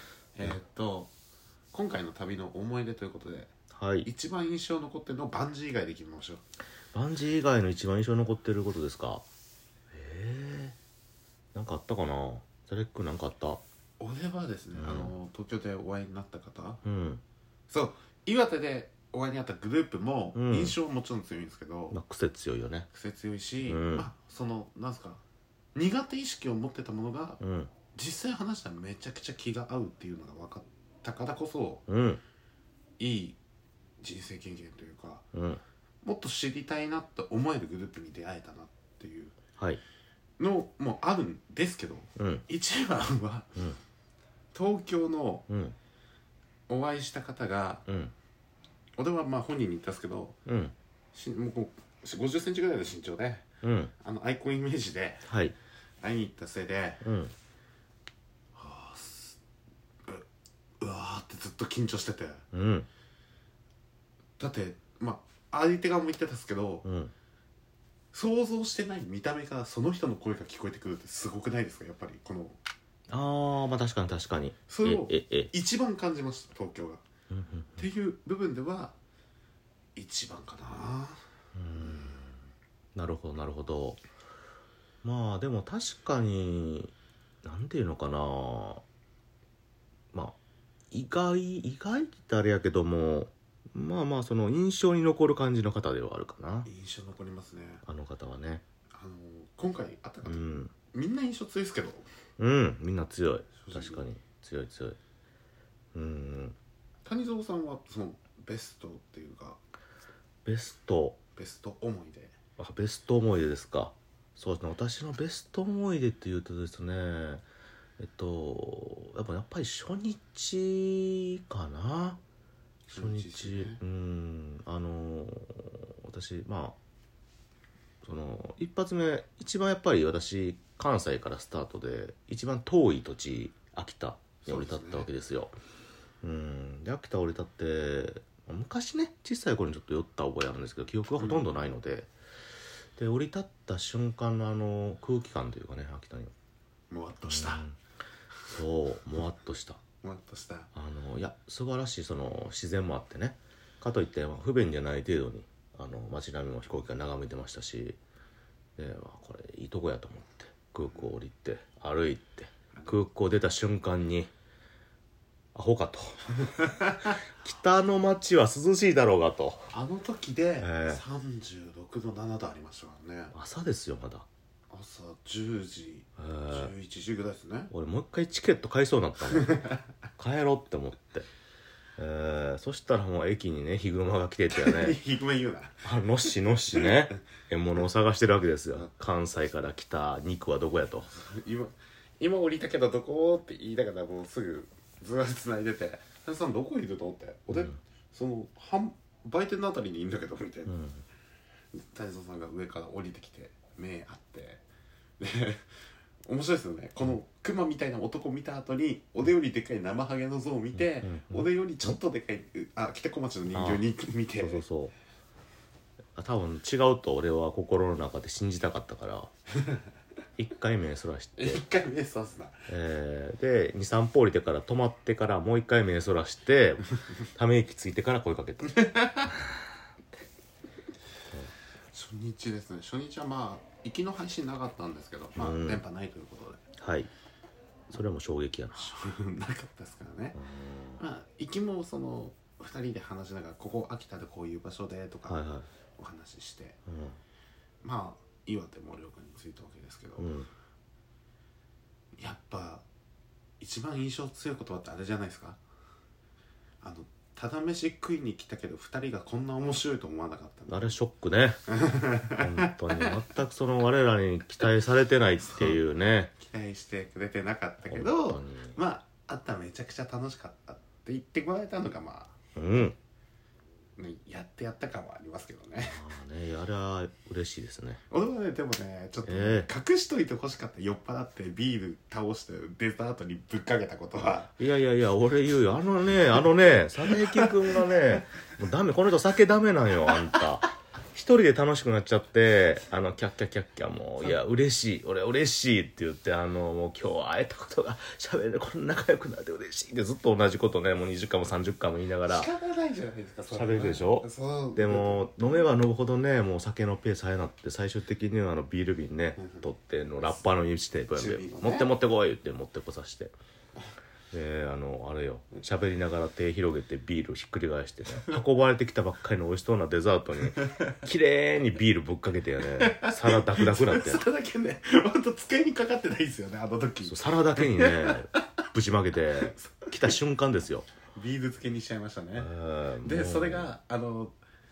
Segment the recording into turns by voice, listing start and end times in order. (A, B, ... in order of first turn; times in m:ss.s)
0:00.3-0:01.1 A
0:01.7-0:03.5 A
0:03.7-0:04.1 B
0:04.0-0:06.4 A
0:06.9-0:09.2 B
0:09.9-0:10.8 B
0:11.5-0:13.6 B
0:14.0-0:16.8 A
0:14.8-0:15.1 B
0:16.8-0:17.2 B
0:17.7-0:22.0 A
0:20.3-0:20.7 B
0:21.9-0:22.9 B
0:22.9-0:25.2 A
0:23.6-0:24.1 B
0:25.7-0:27.4 A
0:27.4-0:27.7 B
0:27.9-0:31.8 A
0:31.9-0:32.2 B
0:33.0-0:33.4 A
0:34.0-0:35.2 A
0:35.3-0:35.6 B
0:36.0-0:39.4 A
0:40.4-0:43.5 A
0:42.2-0:42.4 B
0:44.5-0:45.5 A
0:45.5-0:45.8 B
0:46.7-0:47.8 A
0:47.9-0:48.1 B
0:49.0-0:50.4 A
0:50.5-0:50.7 B
0:51.1-0:53.5 A
0:53.6-0:53.9 B
0:54.0-0:55.3 A
0:55.3-0:55.5 B
0:56.0-0:57.0 A
0:57.0-0:57.3 B
0:58.5-0:59.4 A
1:00.8-1:02.4 A
1:02.5-1:02.9 B
1:04.4-1:06.9 A
1:06.8-1:07.1 B
1:08.1-1:12.6 A
1:13.1-1:15.5 B
1:14.7-1:17.0 A
1:17.3-1:17.8 B
1:17.8-1:19.0 A
1:20.0-1:21.2 A
1:21.5-1:22.4 B
1:21.8-1:22.0 A
1:22.9-1:24.0 B
1:25.0-1:28.8 B
1:30.9-1:36.7 B
1:36.6-1:37.8 A
1:37.8-1:38.6 B
1:38.9-1:42.1 A
1:40.2-1:40.7 B
1:42.4-1:45.0 B
1:43.6-1:44.0 A
1:45.9-1:46.6 B
1:47.0-1:49.6 A
1:50.4-1:51.2 B
1:51.4-1:52.3 A
1:52.6-1:57.4 B
1:58.0-2:02.2 B
2:02.9-2:03.8 A
2:02.9-2:06.8 B
2:08.0-2:15.6 B
2:14.4-2:15.1 A
2:16.2-2:22.1 B
2:21.2-2:21.4 A
2:23.0-2:26.3 B
2:26.9-2:27.6 A
2:27.3-2:27.8 B
2:28.5-2:29.8 B
2:30.0-2:30.7 A
2:30.7-2:38.0 B
2:38.8-2:44.3 B
2:45.5-2:49.7 B
2:49.7-2:53.3 A
2:50.6-2:51.0 B
2:53.3-2:54.2 B
2:54.7-2:57.7 A
2:56.2-2:56.7 B
2:57.7-3:01.3 B
2:59.3-2:59.8 A
3:02.0-3:05.0 B
3:04.5-3:05.9 A
3:05.8-3:11.1 B
3:11.1-3:20.8 A
3:20.7-3:21.0 B
3:21.7-3:24.6 A
3:25.2-3:25.6 A
3:26.2-3:34.6 A
3:30.8-3:31.5 B
3:33.5-3:33.8 B
3:34.4-3:34.9 B
3:36.2-3:39.3 B
3:40.4-3:41.6 B
3:41.4-3:42.7 A
3:42.7-3:49.3 B
3:48.7-3:49.3 A
3:51.9-3:56.6 A
3:55.4-3:55.8 B
3:56.8-3:57.1 B
3:57.9-3:58.9 B
3:58.7-4:00.4 A
4:00.3-4:01.0 B
4:01.0-4:05.4 A
4:05.3-4:05.7 B
4:06.0-4:06.8 A
4:06.9-4:07.2 B
4:07.8-4:10.3 A
4:10.2-4:10.5 B
4:12.2-4:12.8 A
4:13.6-4:15.6 A
4:16.8-4:21.0 A
4:20.7-4:21.6 B
4:21.7-4:23.1 A
4:22.4-4:26.3 B
4:25.5-4:25.8 A
4:26.4-4:32.3 A
4:27.9-4:28.8 B
4:32.6-4:33.0 B
4:34.0-4:36.0 A
4:35.8-4:38.0 B
4:38.1-4:44.5 A
4:39.2-4:39.7 B
4:44.5-5:02.5 B
4:47.1-4:47.5 A
5:02.2-5:05.3 A
5:03.5-5:13.3 B
5:09.4-5:09.7 A
5:11.2-5:11.9 A
5:14.3-5:24.2 B
5:22.7-5:28.4 A
5:27.0-5:30.9 B
5:29.4-5:29.9 A
5:31.1-5:32.5 A
5:32.4-5:33.7 B
5:33.0-5:34.3 A